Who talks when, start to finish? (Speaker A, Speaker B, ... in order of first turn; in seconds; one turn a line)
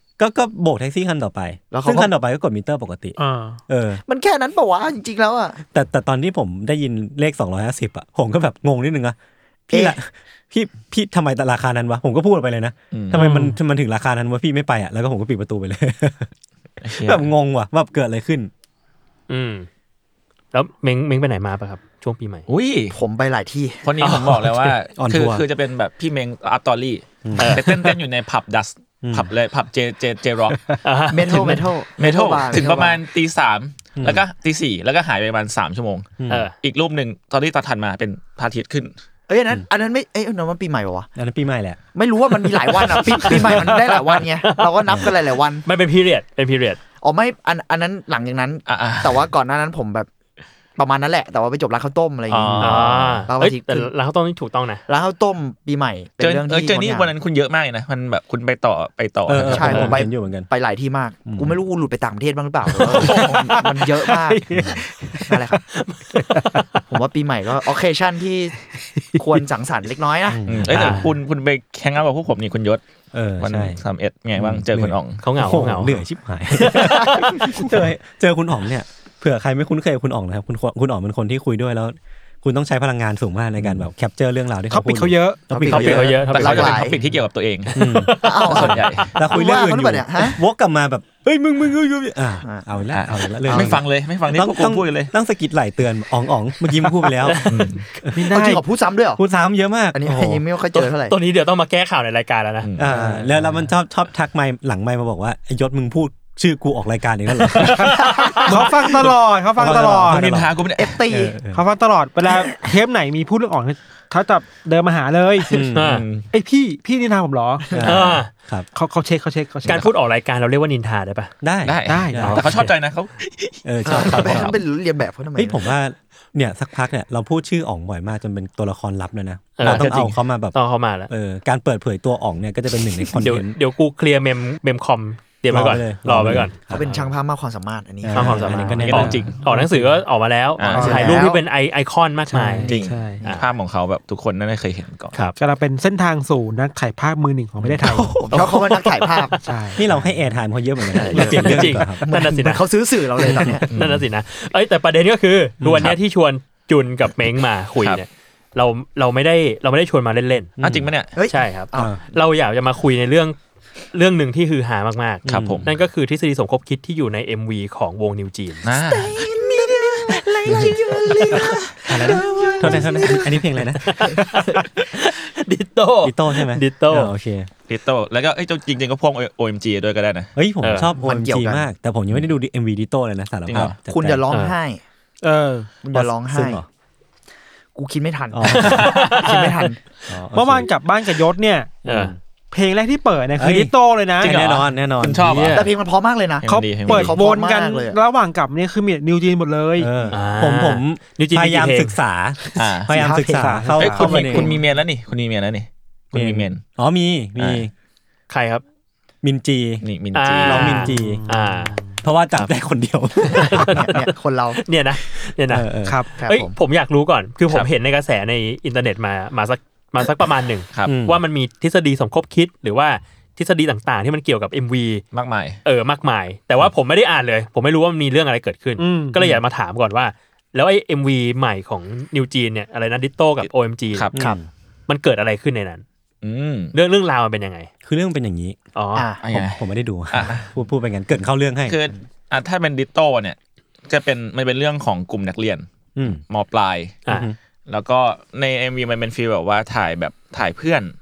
Speaker A: 0.2-3.2
Speaker B: 1.7-2.1
Speaker C: 3.2-3.6
Speaker A: 3.7-4.0
Speaker B: 4.1-5.6
Speaker A: 5.7-9.2
Speaker A: 9.7-16.3
Speaker B: 9.7-10.0
Speaker D: 12.9-13.2
Speaker C: 13.2-13.6
Speaker E: 13.2-13.5
Speaker D: 16.8-17.3
Speaker A: 16.9-18.5
Speaker E: 19.3-19.7
Speaker E: 20.5-22.5
Speaker D: 22.5-23.0
Speaker B: 22.9-23.9
Speaker D: 23.8-30.7
Speaker E: 24.0-24.7
Speaker A: 24.9-25.5
Speaker A: 27.2-27.6
Speaker E: 27.4-27.9
Speaker A: 29.0-29.3
Speaker E: 30.8-31.6
Speaker B: 31.1-33.0
Speaker D: 32.0-38.9
Speaker A: 34.0-34.2
Speaker A: 36.2-36.5
Speaker E: 36.3-36.5
Speaker B: 39.3-41.1
Speaker A: 41.2-41.8
Speaker B: 41.9-45.6
Speaker E: 43.0-45.1
Speaker A: 44.9-45.1
Speaker E: 45.6-46.8
Speaker B: 47.0-50.1
Speaker D: 48.7-49.3
Speaker B: 50.8-53.9
Speaker D: 52.3-53.3
Speaker E: 52.6-54.8
Speaker B: 54.9-57.1
Speaker D: 56.2-59.8
Speaker A: 59.3-60.5
Speaker B: 59.4-64.5
Speaker E: 59.7-60.0
Speaker A: 61.3-61.6
Speaker E: 62.8-63.4
Speaker C: 64.1-64.4
Speaker A: 64.5-64.8
Speaker E: 64.5-66.9
Speaker B: 65.2-65.6
Speaker B: 66.9-68.6
Speaker B: 69.2-70.4
Speaker A: 70.3-71.2
Speaker D: 70.5-72.8
Speaker E: 70.7-71.1
Speaker A: 73.1-73.8
Speaker D: 73.4-75.2
Speaker A: 74.4-86.2
Speaker E: 75.2-76.0
Speaker E: 76.6-77.6
Speaker D: 83.6-83.9
Speaker C: 84.7-86.2
Speaker B: 85.6-87.0
Speaker D: 85.7-87.7
Speaker E: 85.7-87.0
Speaker E: 87.7-88.7
Speaker A: 87.8-97.5
Speaker B: 88.2-90.4
Speaker D: 88.4-89.2
Speaker D: 92.9-95.1
Speaker B: 93.5-93.8
Speaker E: 97.2-97.7
Speaker D: 97.5-97.8
Speaker A: 98.0-98.4
Speaker C: 98.2-98.6
Speaker B: 98.3-99.2
Speaker A: 99.2-100.4
Speaker B: 99.9-101.2
Speaker E: 100.7-102.7
Speaker D: 102.6-102.9
Speaker A: 102.8-107.9
Speaker C: 102.9-103.2
Speaker D: 107.6-108.2
Speaker E: 107.8-108.6
Speaker C: 108.4-110.5
Speaker D: 108.7-109.1
Speaker A: 109.6-110.5
Speaker D: 110.0-111.0
Speaker B: 110.8-111.4
Speaker A: 111.1-111.6
Speaker C: 111.4-115.5
Speaker A: 115.5-116.0
Speaker E: 115.7-116.0
Speaker D: 115.8-116.3
Speaker C: 116.3-117.8
Speaker A: 117.7-118.7
Speaker B: 117.7-118.1
Speaker E: 117.8-118.3
Speaker C: 118.7-119.9
Speaker E: 119.7-121.3
Speaker A: 121.4-122.7
Speaker D: 121.6-124.6
Speaker C: 121.9-122.5
Speaker A: 123.7-124.6
Speaker B: 123.9-125.7
Speaker A: 125.3-130.6
Speaker E: 129.6-131.1
Speaker D: 129.6-130.2
Speaker A: 131.1-133.6
Speaker E: 133.2-137.0
Speaker A: 135.5-136.9
Speaker B: 136.7-138.8
Speaker A: 138.0-139.2
Speaker E: 138.1-143.5
Speaker D: 138.8-139.4
Speaker C: 138.9-140.0
Speaker D: 140.6-141.1
Speaker C: 140.7-141.2
Speaker B: 140.7-141.4
Speaker C: 142.3-143.2
Speaker D: 142.7-145.3
Speaker C: 145.4-148.4
Speaker D: 147.7-149.3
Speaker B: 148.2-149.4
Speaker C: 149.4-149.9
Speaker A: 149.8-152.0
Speaker B: 150.9-153.7
Speaker E: 151.1-152.6
Speaker E: 153.2-160.5
Speaker D: 153.7-154.0
Speaker A: 155.6-155.9
Speaker A: 160.6-160.9
Speaker D: 160.6-161.1
Speaker B: 161.2-162.2
Speaker E: 161.3-163.4
Speaker A: 161.7-162.0
Speaker E: 163.9-168.7
Speaker A: 165.2-165.7
Speaker D: 165.3-165.7
Speaker D: 168.6-173.1
Speaker B: 168.7-173.5
Speaker A: 170.5-170.7
Speaker A: 171.4-174.1
Speaker E: 173.8-177.1
Speaker B: 174.1-174.6
Speaker A: 176.0-177.5
Speaker D: 177.7-180.3
Speaker A: 180.4-184.2
Speaker E: 180.6-180.9
Speaker B: 181.0-181.7
Speaker D: 183.5-183.8
Speaker B: 183.9-184.8
Speaker C: 185.2-185.7
Speaker B: 185.8-186.6
Speaker A: 185.9-186.7
Speaker B: 187.8-189.8
Speaker A: 188.3-188.9
Speaker E: 188.6-189.7
Speaker A: 190.1-190.7
Speaker C: 190.3-191.8
Speaker A: 191.8-192.2
Speaker E: 191.9-192.1
Speaker C: 192.5-194.4
Speaker A: 193.4-195.5
Speaker D: 194.2-195.7
Speaker E: 194.3-194.6
Speaker E: 195.2-195.7
Speaker B: 195.5-198.0
Speaker D: 196.4-197.2
Speaker C: 196.5-199.9
Speaker A: 199.8-204.5
Speaker E: 200.1-202.0
Speaker D: 202.6-203.0
Speaker B: 202.9-204.6
Speaker C: 203.3-204.5
Speaker D: 203.8-206.6
Speaker A: 206.1-207.7
Speaker D: 207.4-207.6
Speaker E: 208.3-208.6
Speaker A: 209.2-209.8
Speaker D: 209.8-210.8
Speaker E: 210.1-211.8
Speaker A: 210.4-211.2
Speaker C: 210.7-212.0
Speaker A: 212.0-213.9
Speaker E: 213.3-215.7
Speaker B: 213.6-214.6
Speaker A: 215.5-216.0
Speaker C: 215.8-216.2
Speaker B: 216.2-216.5
Speaker E: 216.2-225.0
Speaker A: 220.8-221.2
Speaker D: 225.1-225.6
Speaker E: 225.7-234.1
Speaker C: 228.8-229.3
Speaker D: 233.4-234.2
Speaker A: 234.1-234.5
Speaker E: 234.9-235.8
Speaker D: 236.2-236.7
Speaker E: 236.7-237.7
Speaker A: 237.8-238.6
Speaker E: 238.8-239.1
Speaker B: 238.9-239.2
Speaker D: 239.2-240.5
Speaker A: 239.3-241.8
Speaker D: 241.7-243.4
Speaker D: 243.9-247.0
Speaker A: 246.0-246.2
Speaker A: 247.1-247.4
Speaker D: 247.7-250.9